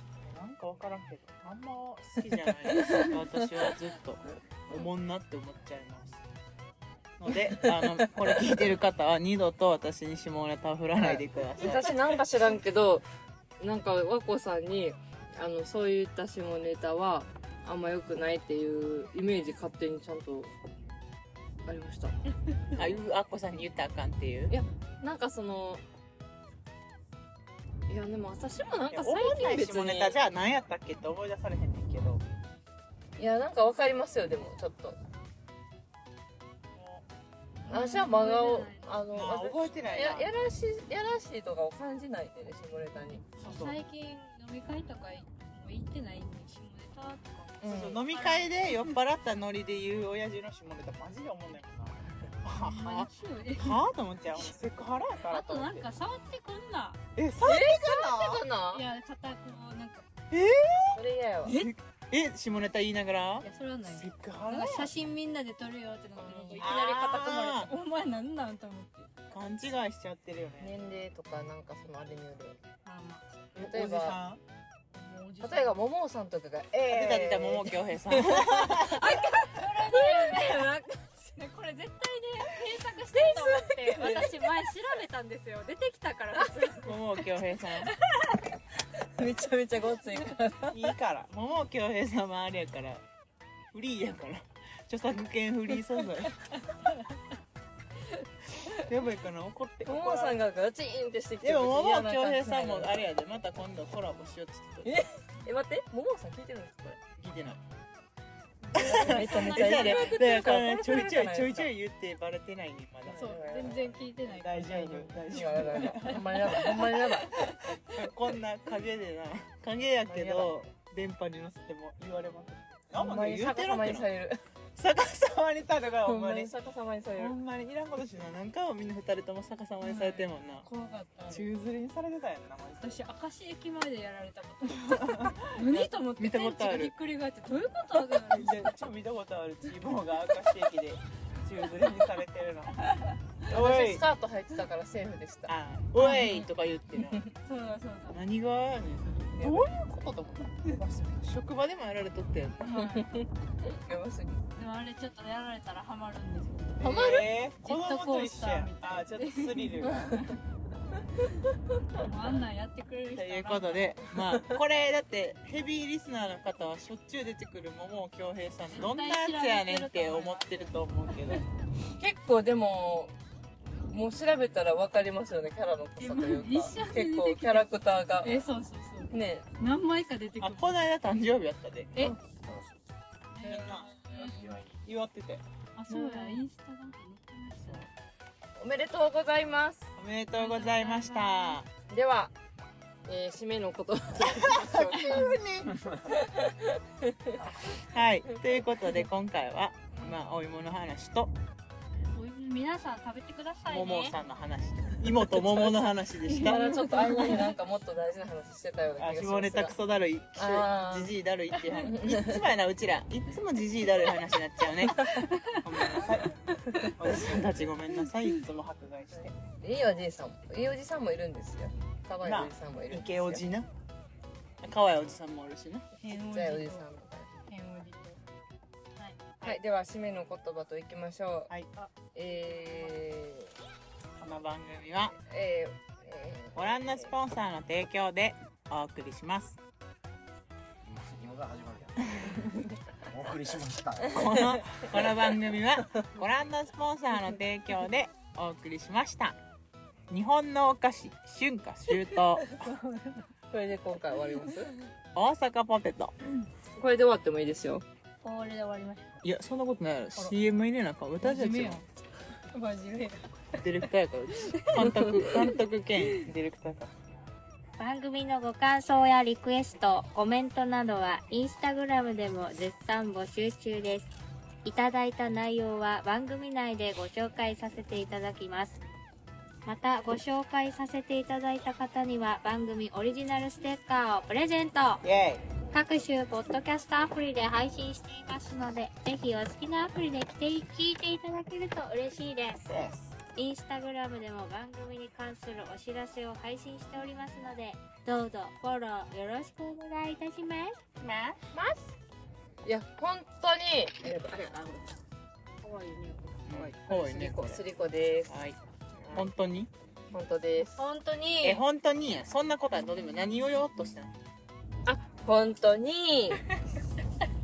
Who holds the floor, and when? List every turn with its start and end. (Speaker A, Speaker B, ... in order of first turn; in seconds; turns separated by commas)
Speaker A: 0.2-6.2, Speaker B: 2.8-3.1, Speaker A: 7.2-12.2, Speaker B: 7.5-8.1, Speaker B: 11.0-13.1, Speaker B: 13.6-20.5, Speaker B: 21.7-22.1, Speaker A: 22.8-24.6, Speaker B: 24.5-25.8, Speaker B: 27.9-30.2, Speaker A: 28.9-32.2, Speaker B: 33.2-35.0, Speaker A: 36.8-37.0, Speaker C: 37.6-39.4, Speaker B: 37.7-43.3, Speaker A: 39.1-40.3, Speaker C: 43.4-48.9, Speaker A: 43.4-43.8, Speaker B: 47.6-48.0, Speaker A: 47.6-55.9, Speaker C: 52.6-53.8, Speaker C: 55.3-57.0, Speaker A: 57.1-58.4, Speaker B: 57.4-58.8, Speaker C: 58.7-60.1, Speaker A: 60.3-61.0, Speaker B: 60.9-61.6, Speaker C: 61.5-61.7, Speaker A: 61.5-64.9, Speaker C: 63.4-69.1, Speaker B: 66.2-66.8, Speaker A: 66.6-67.7, Speaker A: 69.3-70.7, Speaker B: 70.6-72.6, Speaker C: 72.8-73.3, Speaker B: 73.5-74.2, Speaker A: 73.6-74.4, Speaker C: 75.0-75.8, Speaker B: 75.4-80.8, Speaker A: 76.8-79.1, Speaker C: 78.9-87.0, Speaker B: 83.1-84.3, Speaker A: 86.8-87.9, Speaker B: 89.2-90.8, Speaker A: 90.7-93.0, Speaker A: 93.7-96.5, Speaker A: 98.7-100.4, Speaker B: 99.9-103.1, Speaker A: 101.4-105.0, Speaker B: 104.8-107.0, Speaker A: 107.2-107.6, Speaker C: 108.7-110.5, Speaker A: 108.8-113.3, Speaker B: 108.8-111.7, Speaker B: 113.1-114.0, Speaker C: 113.1-116.7, Speaker A: 114.2-124.1, Speaker B: 115.0-117.4, Speaker B: 120.1-120.5, Speaker B: 123.0-124.4, Speaker A: 124.8-126.5, Speaker B: 126.0-127.4, Speaker A: 127.2-130.7, Speaker C: 129.8-131.5, Speaker A: 131.3-133.0, Speaker C: 132.8-138.8, Speaker A: 134.9-136.9, Speaker A: 138.2-142.9, Speaker A: 143.5-144.0, Speaker B: 143.5-146.5, Speaker A: 145.5-147.2, Speaker B: 147.0-147.3, Speaker C: 147.3-148.2, Speaker A: 148.1-152.8, Speaker B: 149.4-149.7, Speaker C: 152.6-153.1, Speaker B: 153.0-154.4, Speaker C: 154.6-160.3, Speaker A: 156.8-160.2, Speaker B: 156.8-157.3, Speaker B: 159.8-160.2, Speaker C: 161.9-164.0, Speaker A: 163.2-171.4, Speaker C: 168.7-170.7, Speaker B: 172.0-173.1, Speaker B: 173.9-178.4, Speaker C: 176.0-177.7, Speaker C: 178.2-180.9, Speaker B: 179.1-179.5, Speaker A: 180.4-182.1, Speaker D: 182.4-182.8, Speaker C: 183.3-184.5, Speaker D: 183.5-184.8, Speaker A: 183.5-185.4, Speaker C: 185.8-187.9, Speaker B: 185.9-186.4, Speaker B: 188.6-189.9, Speaker A: 190.0-191.7, Speaker C: 190.3-191.6, Speaker B: 191.9-192.3, Speaker B: 193.1-195.4, Speaker A: 194.2-195.8, Speaker D: 195.8-196.0, Speaker B: 196.1-197.4, Speaker A: 197.7-201.3, Speaker C: 202.1-204.2, Speaker A: 203.7-207.4, Speaker C: 205.4-205.7, Speaker C: 206.2-207.5, Speaker B: 206.4-209.7, Speaker A: 209.0-219.3, Speaker B: 210.4-211.2, Speaker B: 211.8-212.4, Speaker B: 219.6-223.4, Speaker A: 222.2-223.7, Speaker A: 224.6-225.9, Speaker C: 226.0-226.8, Speaker B: 226.1-227.3, Speaker C: 227.5-228.2, Speaker C: 229.0-229.2, Speaker B: 229.4-231.5, Speaker C: 231.8-232.9, Speaker B: 232.2-233.5, Speaker A: 234.2-235.1, Speaker B: 235.1-237.1, Speaker A: 236.6-239.6, Speaker D: 240.8-242.4, Speaker D: 243.1-244.5, Speaker A: 244.1-249.4, Speaker A: 250.1-252.7, Speaker B: 253.5-254.7, Speaker A: 255.2-256.1, Speaker B: 256.8-257.8, Speaker C: 258.2-259.2, Speaker A: 259.2-261.8, Speaker C: 261.2-261.9, Speaker C: 262.5-263.6, Speaker A: 263.6-266.9, Speaker C: 264.6-265.5, Speaker E: 267.8-274.1, Speaker E: 274.6-278.8, Speaker E: 279.7-285.0, Speaker A: 285.0-285.5, Speaker E: 285.7-292.7, Speaker A: 292.7-293.1, Speaker E: 293.4-300.8, Speaker A: 301.0-301.4, Speaker B: 301.5-301.9, Speaker B: 302.6-304.6, Speaker C: 304.2-304.8, Speaker C: 305.6-306.5, Speaker A: 306.5-307.6, Speaker B: 306.5-308.4, Speaker A: 308.3-308.6, Speaker A: 309.1-309.7, Speaker B: 310.1-310.8, Speaker C: 310.8-311.6, Speaker A: 311.4-314.1, Speaker B: 314.9-316.4